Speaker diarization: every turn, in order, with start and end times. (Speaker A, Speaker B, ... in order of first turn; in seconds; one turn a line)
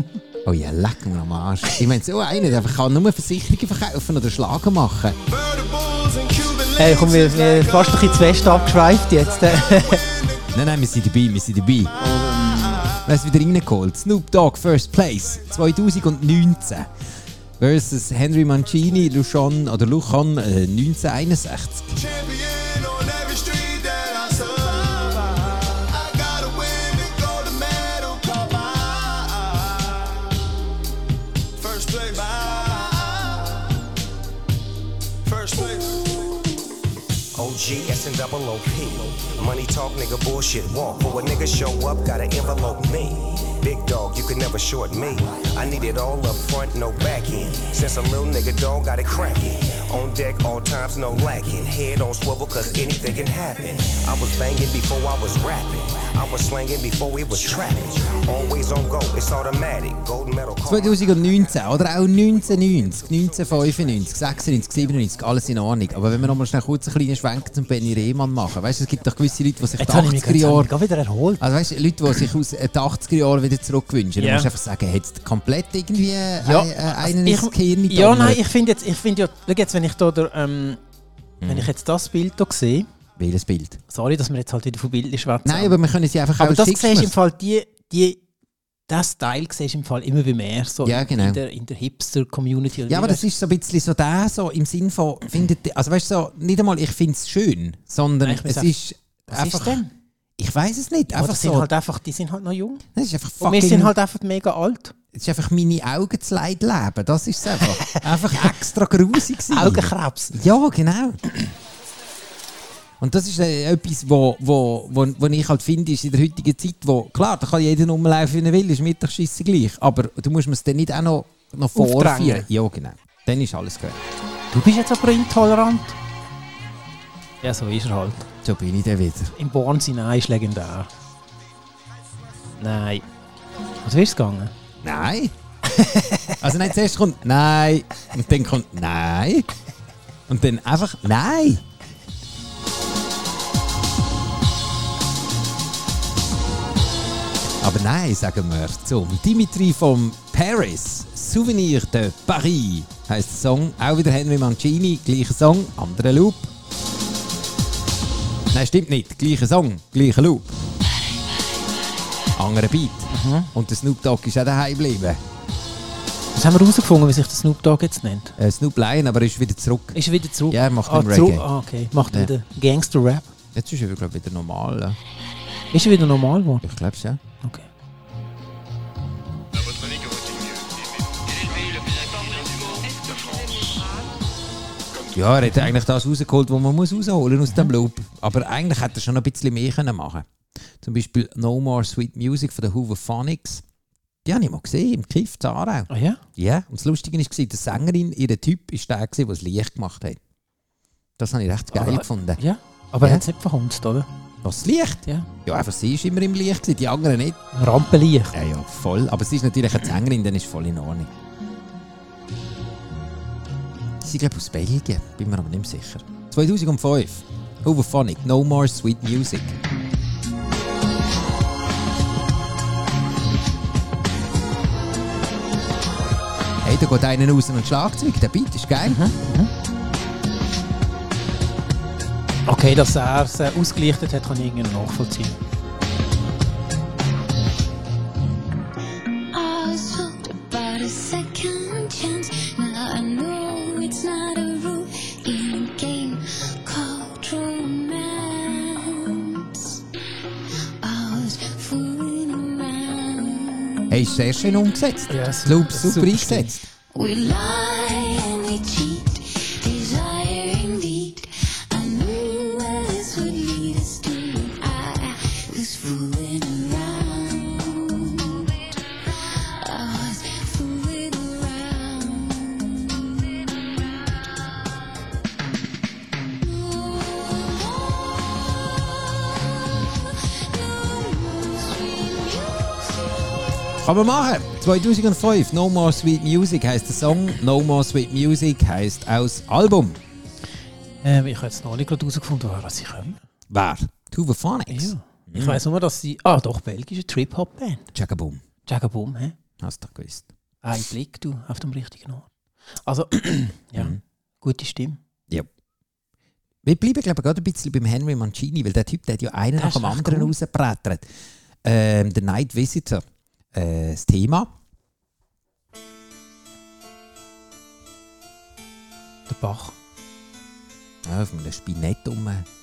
Speaker A: 0.5-5.2
Speaker B: 5.3-7.5
Speaker C: 6.7-10.1
Speaker A: 10.5-11.9
Speaker B: 12.2-12.8
Speaker A: 12.9-16.9
Speaker A: 17.6-22.0
Speaker B: 22.1-25.3
Speaker B: 25.9-29.5
Speaker B: 31.6-33.3
Speaker B: 35.3-36.0
Speaker D: 37.3-61.0
Speaker A: 60.7-70.7
Speaker C: 69.8-71.4
Speaker A: 71.4-78.4
Speaker C: 74.2-74.5
Speaker C: 76.4-80.8
Speaker A: 81.4-81.7
Speaker C: 81.5-82.9
Speaker A: 83.2-83.8
Speaker C: 83.9-85.8
Speaker A: 85.4-87.1
Speaker C: 86.4-88.2
Speaker C: 88.9-93.3
Speaker A: 90.8-91.4
Speaker A: 92.9-99.8
Speaker C: 98.2-98.8
Speaker C: 99.3-99.9
Speaker A: 100.4-101.7
Speaker C: 101.1-102.8
Speaker A: 103.0-103.9
Speaker C: 103.4-105.0
Speaker A: 105.1-111.2
Speaker C: 107.5-108.5
Speaker C: 109.5-110.4
Speaker A: 113.0-124.0
Speaker C: 121.8-122.5
Speaker C: 124.5-126.0
Speaker C: 127.4-128.3
Speaker A: 128.4-129.3
Speaker C: 129.4-130.9
Speaker C: 132.6-133.1
Speaker C: 133.8-134.5
Speaker A: 134.8-135.3
Speaker C: 135.7-136.4
Speaker A: 136.4-139.5
Speaker A: 140.3-141.6
Speaker A: 147.6-156.5
Speaker A: 158.5-160.6
Speaker A: 162.4-165.2
Speaker C: 163.1-163.5
Speaker C: 166.3-168.4
Speaker A: 168.4-171.5
Speaker C: 169.9-173.3
Speaker A: 173.5-175.0
Speaker C: 175.7-176.7
Speaker A: 176.6-177.2
Speaker C: 177.4-177.7
Speaker A: 185.1-190.3
Speaker A: 190.8-193.6
Speaker A: 194.2-200.2
Speaker C: 195.9-196.2
Speaker A: 201.2-202.4
Speaker C: 201.7-204.1
Speaker A: 204.4-207.4
Speaker C: 207.6-208.3
Speaker A: 208.3-211.1
Speaker A: 214.0-219.6
Speaker A: 226.6-229.1
Speaker C: 228.8-229.5
Speaker C: 232.5-235.4
Speaker E: 239.3-249.8
Speaker E: 250.8-253.9
Speaker A: 253.9-256.6
Speaker C: 255.1-256.6
Speaker E: 256.9-274.3
Speaker E: 276.8-277.6
Speaker E: 280.5-282.6
Speaker A: 283.8-290.0
Speaker C: 291.0-293.2
Speaker A: 293.5-295.6
Speaker C: 294.7-297.9
Speaker A: 297.9-298.4
Speaker C: 298.7-299.4
Speaker A: 299.6-300.3
Speaker C: 300.6-302.3
Speaker C: 302.8-305.0
Speaker A: 306.6-311.1
Speaker C: 309.6-310.3
Speaker A: 311.6-314.5
Speaker C: 319.3-319.8
Speaker A: 321.1-322.5